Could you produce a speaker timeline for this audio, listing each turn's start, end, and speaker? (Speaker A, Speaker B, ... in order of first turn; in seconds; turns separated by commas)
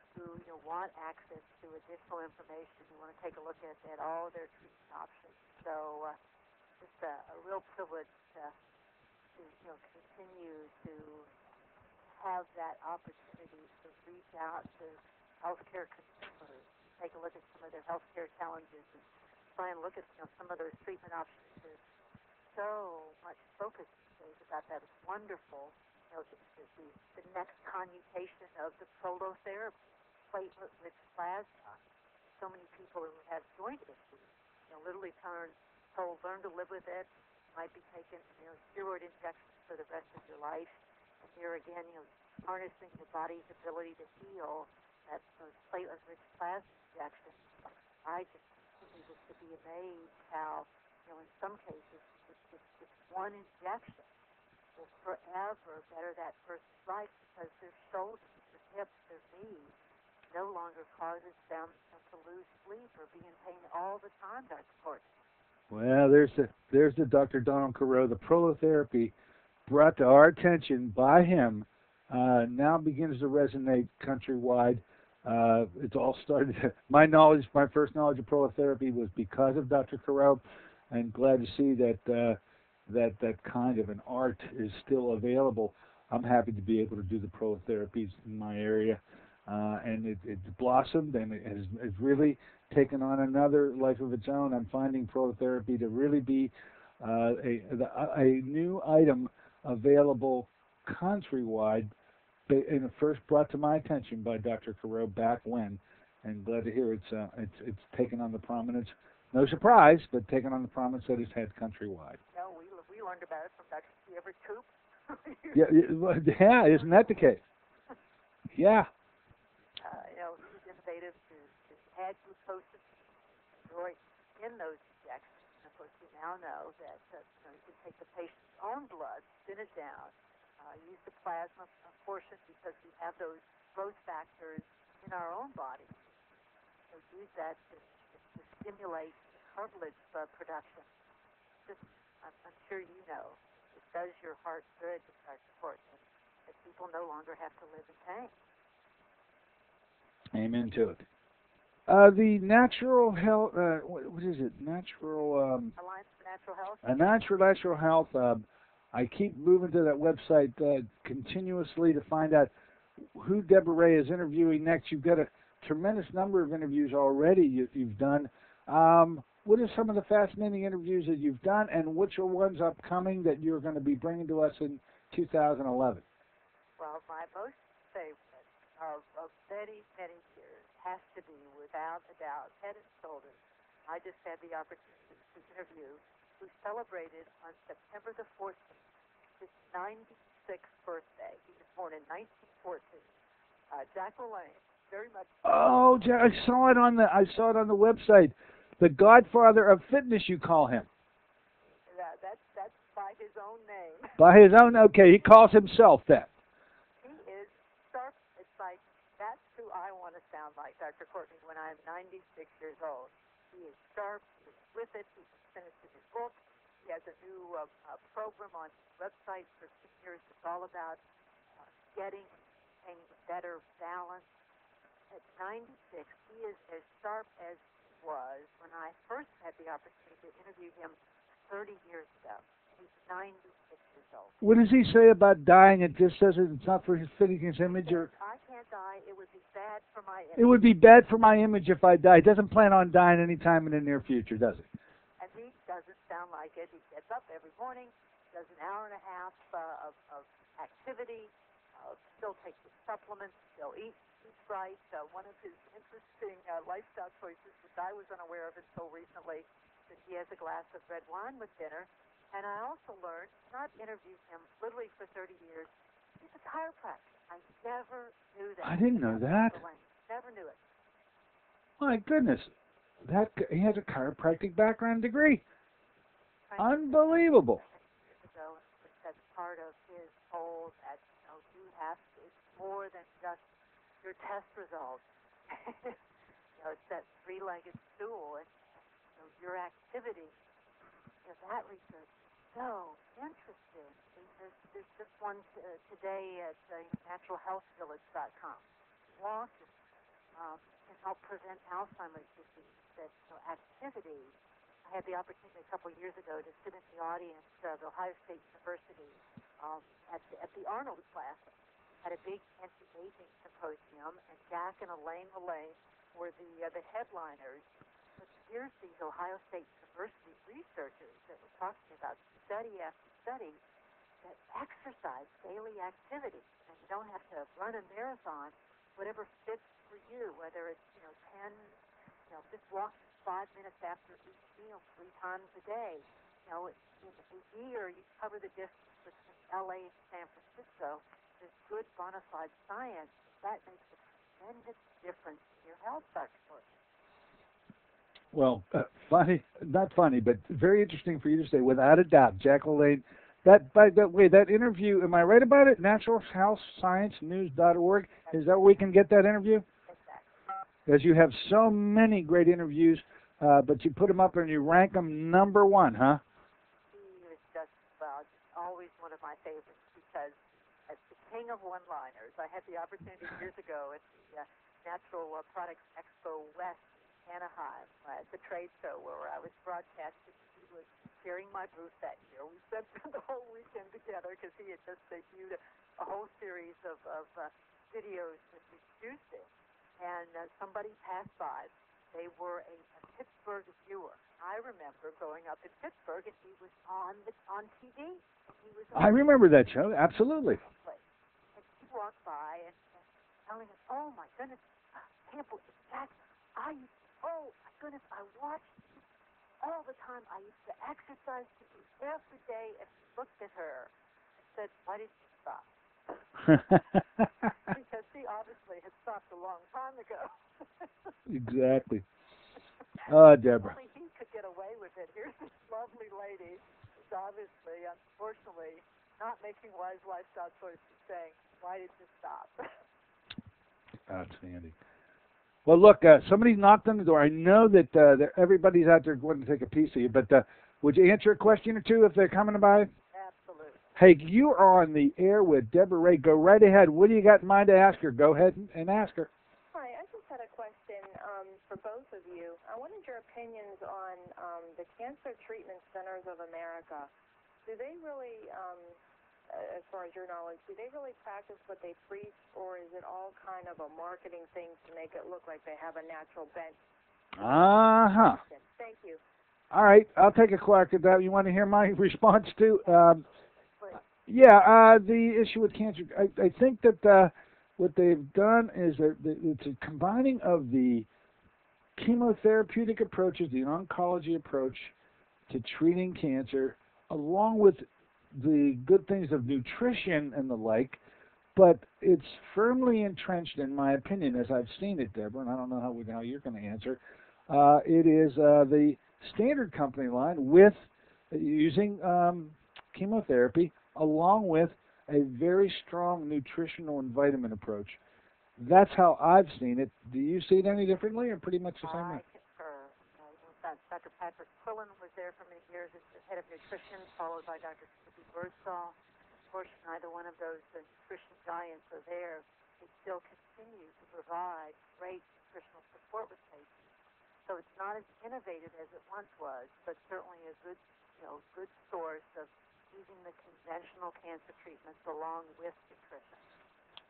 Speaker A: 0.1-6.2, Speaker A: 6.8-8.5, Speaker A: 9.4-11.3, Speaker A: 12.2-19.0, Speaker A: 19.5-21.8, Speaker A: 22.5-29.7, Speaker A: 30.3-31.8, Speaker A: 32.4-47.4, Speaker A: 48.0-54.1, Speaker A: 54.8-59.7, Speaker A: 60.3-65.0, Speaker B: 65.7-69.1, Speaker B: 69.7-101.9, Speaker B: 102.5-112.2, Speaker A: 112.3-115.7, Speaker B: 115.5-117.4, Speaker A: 116.7-117.4, Speaker B: 118.5-118.9, Speaker A: 119.8-123.0, Speaker A: 123.7-136.0, Speaker A: 136.9-140.9, Speaker A: 141.7-148.3, Speaker B: 150.3-151.0, Speaker B: 151.9-155.7, Speaker A: 155.8-156.8, Speaker B: 156.8-162.5, Speaker B: 163.1-176.0, Speaker A: 176.8-188.8, Speaker A: 189.4-193.0, Speaker A: 193.7-195.5, Speaker B: 195.4-200.9, Speaker A: 201.9-204.2, Speaker B: 204.2-206.3, Speaker A: 207.0-221.0, Speaker A: 221.6-222.3, Speaker A: 222.8-224.3, Speaker A: 225.1-230.9, Speaker A: 231.5-234.4, Speaker B: 234.4-238.1, Speaker A: 237.7-240.6, Speaker B: 240.3-244.7, Speaker A: 245.2-270.6, Speaker B: 268.6-269.6, Speaker B: 271.8-272.5, Speaker B: 273.0-275.4, Speaker A: 276.5-283.4, Speaker B: 276.6-277.6, Speaker A: 284.0-286.0, Speaker A: 286.6-288.6, Speaker A: 289.1-290.3, Speaker A: 291.2-298.6, Speaker A: 299.1-299.7, Speaker A: 300.3-304.3, Speaker A: 304.8-317.7, Speaker A: 318.2-323.6, Speaker A: 324.2-331.7, Speaker A: 332.3-346.7, Speaker B: 348.3-359.6, Speaker A: 359.9-360.3, Speaker B: 360.9-366.2, Speaker A: 366.9-370.4, Speaker A: 370.9-389.5, Speaker A: 390.0-399.3, Speaker B: 398.9-400.6, Speaker A: 400.7-401.0, Speaker A: 401.5-408.8, Speaker A: 409.6-413.9, Speaker A: 414.4-415.7, Speaker B: 416.4-417.2, Speaker A: 417.6-421.1, Speaker B: 421.3-422.0, Speaker B: 423.1-423.8, Speaker A: 423.6-432.7, Speaker B: 434.1-434.7, Speaker B: 435.6-442.9, Speaker A: 443.1-443.9, Speaker B: 443.9-449.3, Speaker C: 449.7-457.1, Speaker C: 457.6-459.0, Speaker C: 459.5-466.8, Speaker B: 467.4-468.4, Speaker C: 468.3-469.2, Speaker B: 469.7-473.2, Speaker B: 474.2-481.1, Speaker B: 482.0-484.9, Speaker B: 485.5-491.0, Speaker B: 491.5-508.0, Speaker B: 508.6-512.2, Speaker A: 511.8-518.9, Speaker A: 519.5-526.7, Speaker A: 527.5-536.4